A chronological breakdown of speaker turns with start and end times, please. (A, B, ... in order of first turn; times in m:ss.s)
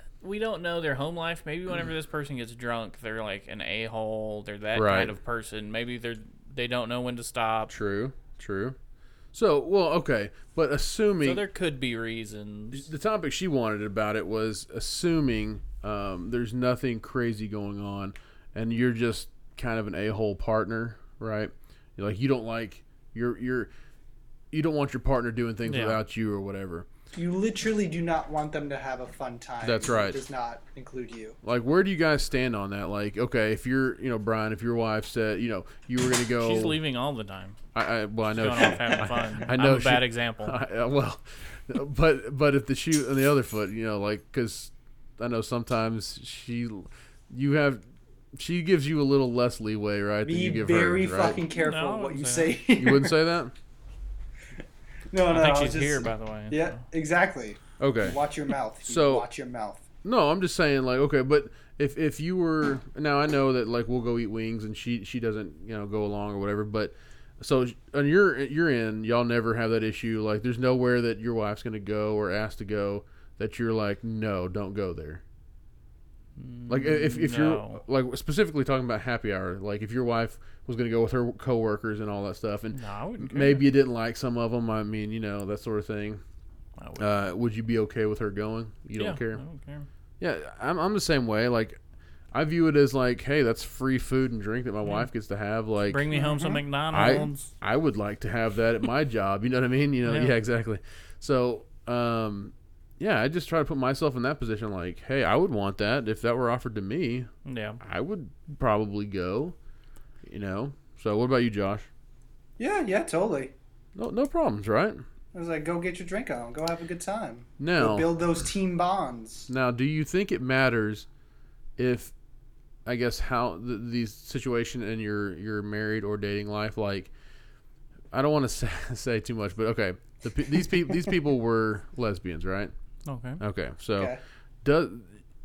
0:00.2-0:07.7 A
0:04.7-0:05.1 B
0:07.7-0:08.8 B
0:09.3-0:11.4 B
0:11.2-0:12.8 A
0:12.7-0:23.7 B
0:24.5-0:26.8 B
0:25.7-0:26.0 A
0:27.1-0:31.4 C
0:29.6-0:30.2 B
0:31.4-0:36.8 B
0:36.3-0:37.6 A
0:37.7-0:47.8 B
0:38.3-0:40.6 A
0:48.3-0:51.4 B
0:50.2-0:53.2 C
0:51.5-0:52.6 A
0:52.8-0:53.5 B
0:55.1-0:59.8 C
0:55.3-0:56.8 A
0:57.8-0:58.2 B
0:58.8-0:59.2 B
1:00.0-1:15.2 B
1:16.4-1:17.8 A
1:16.7-1:26.2 B
1:22.7-1:23.7 A
1:26.8-1:27.1 A
1:27.0-1:29.4 B
1:29.0-1:29.9 A
1:30.2-1:31.8 B
1:32.3-1:36.1 B
1:35.8-1:37.5 A
1:36.1-1:36.6 C
1:36.9-1:47.3 B
1:40.0-1:40.3 A
1:47.4-1:47.8 A
1:47.8-1:49.6 B
1:50.2-1:51.9 B
1:52.6-1:53.5 C
1:54.0-1:55.0 B
1:55.3-1:59.5 C
1:57.6-1:58.1 B
1:59.5-2:01.1 B
2:01.8-2:02.1 B
2:02.8-2:07.1 B
2:08.1-2:12.7 B
2:13.0-2:13.4 A
2:13.4-2:15.1 B